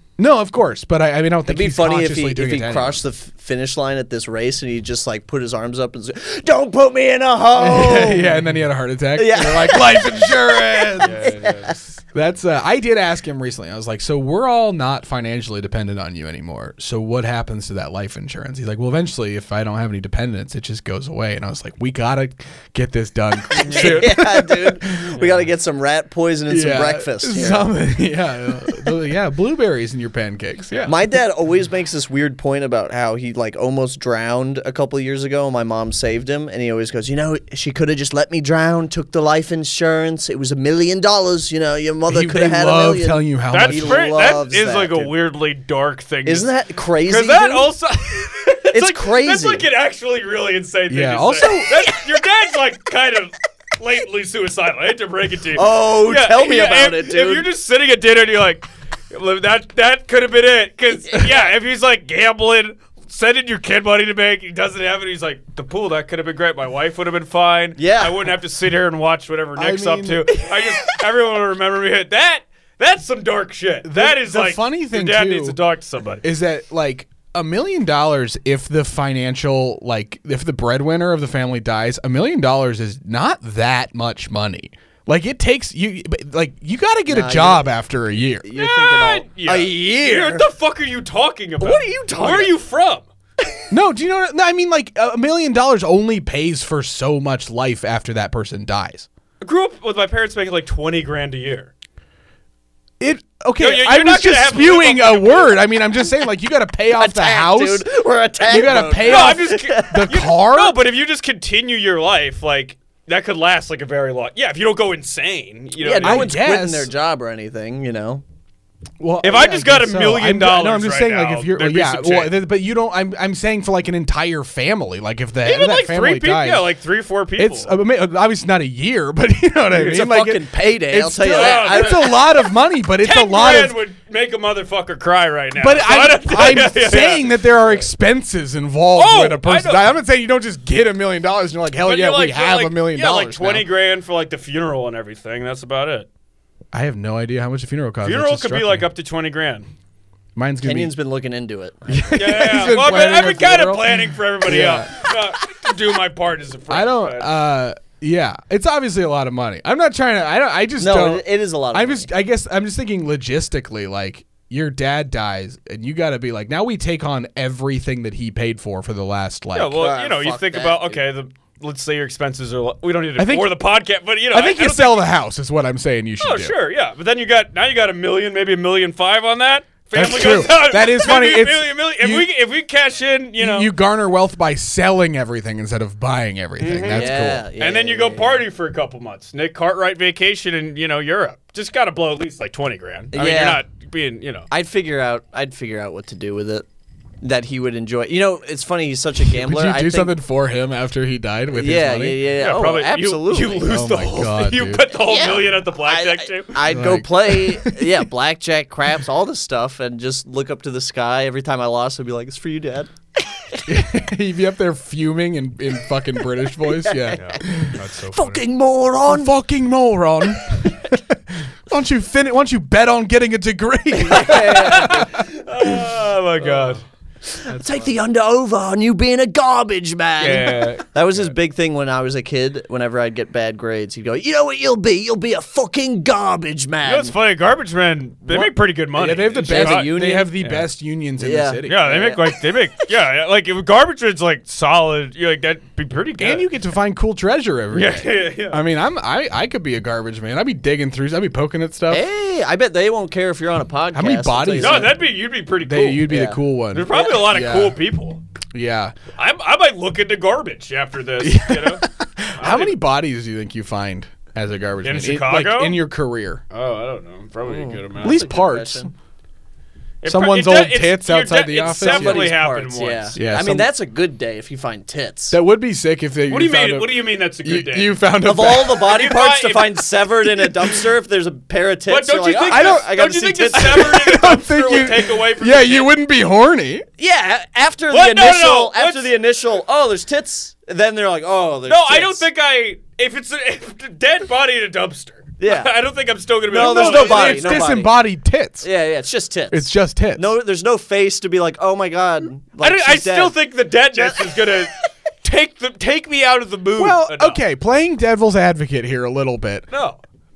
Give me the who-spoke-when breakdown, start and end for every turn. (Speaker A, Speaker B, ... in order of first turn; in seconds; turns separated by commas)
Speaker A: 0.2-3.0, Speaker B: 1.5-8.4, Speaker A: 7.5-11.3, Speaker B: 9.2-11.8, Speaker C: 11.0-11.9, Speaker A: 12.1-25.1, Speaker B: 23.6-27.7, Speaker C: 23.6-24.1, Speaker C: 25.1-25.5, Speaker A: 26.5-31.0, Speaker B: 30.9-45.1, Speaker A: 42.1-44.1, Speaker C: 43.5-46.5, Speaker B: 46.2-47.7, Speaker C: 47.0-76.2, Speaker B: 48.7-49.6, Speaker A: 50.9-51.9, Speaker B: 55.5-57.5, Speaker B: 67.8-68.3, Speaker A: 69.5-70.4, Speaker A: 73.8-75.6, Speaker A: 76.2-88.5, Speaker B: 87.1-87.7, Speaker B: 88.4-90.5, Speaker C: 88.5-93.0, Speaker B: 91.6-92.5, Speaker A: 93.7-99.1, Speaker C: 99.4-101.7, Speaker A: 103.0-107.9, Speaker C: 103.6-105.6, Speaker B: 106.9-110.0, Speaker A: 108.4-110.8, Speaker C: 109.0-116.3, Speaker B: 115.8-118.2, Speaker A: 116.0-116.9, Speaker A: 119.0-126.7, Speaker C: 119.2-122.4, Speaker C: 125.4-127.7, Speaker A: 127.4-133.8, Speaker B: 129.7-132.2, Speaker C: 131.2-137.8, Speaker A: 135.6-143.7, Speaker C: 139.0-139.8, Speaker C: 141.8-146.1, Speaker A: 146.7-148.9, Speaker C: 148.0-149.7, Speaker A: 150.3-150.9, Speaker B: 150.6-152.2, Speaker A: 151.9-155.1, Speaker C: 152.1-157.3, Speaker A: 156.7-169.9, Speaker B: 160.8-162.1, Speaker C: 169.5-175.1, Speaker B: 169.8-171.0, Speaker A: 173.2-173.6, Speaker A: 174.3-176.5, Speaker C: 176.2-183.7, Speaker A: 179.9-182.3, Speaker A: 183.4-187.4, Speaker C: 186.6-194.5, Speaker B: 186.9-188.4, Speaker B: 193.1-193.6, Speaker B: 194.5-196.6, Speaker B: 197.2-200.1, Speaker A: 199.3-202.3, Speaker B: 201.5-203.7, Speaker C: 202.4-206.6, Speaker A: 203.6-204.8, Speaker B: 205.0-212.9, Speaker A: 206.6-208.0, Speaker A: 213.7-217.8, Speaker B: 216.7-219.3, Speaker C: 217.1-218.4, Speaker A: 219.1-225.3, Speaker B: 223.9-225.2, Speaker C: 224.2-226.8, Speaker B: 227.3-237.1, Speaker A: 227.5-227.9, Speaker C: 230.2-230.9, Speaker C: 236.8-240.7, Speaker A: 238.3-241.9, Speaker B: 239.4-240.3, Speaker B: 241.2-242.3, Speaker C: 241.7-246.5, Speaker A: 246.2-252.0, Speaker C: 247.7-248.6, Speaker B: 251.9-254.9, Speaker A: 253.9-255.0, Speaker C: 254.6-256.1, Speaker A: 255.6-257.8, Speaker B: 256.1-256.4, Speaker C: 256.7-258.2, Speaker A: 258.5-258.9, Speaker C: 259.1-261.8, Speaker A: 261.2-266.4, Speaker C: 262.4-262.8, Speaker C: 264.8-265.8, Speaker C: 266.5-268.4, Speaker B: 267.4-268.9, Speaker A: 268.0-268.9, Speaker C: 270.0-273.1, Speaker A: 270.1-272.3, Speaker B: 271.8-275.4, Speaker A: 273.1-273.7, Speaker A: 275.3-278.9, Speaker C: 276.3-278.0, Speaker B: 278.2-284.0, Speaker C: 278.6-279.9, Speaker C: 281.9-285.9, Speaker A: 282.4-282.9, Speaker A: 283.5-286.9, Speaker B: 287.0-292.2, Speaker C: 287.9-289.1, Speaker C: 291.7-297.7, Speaker B: 295.4-295.7, Speaker B: 296.5-298.0, Speaker A: 296.5-298.7, Speaker B: 298.6-303.4, Speaker A: 299.5-300.3, Speaker C: 302.6-307.4, Speaker B: 303.9-304.6, Speaker A: 306.8-309.7, Speaker C: 309.7-310.0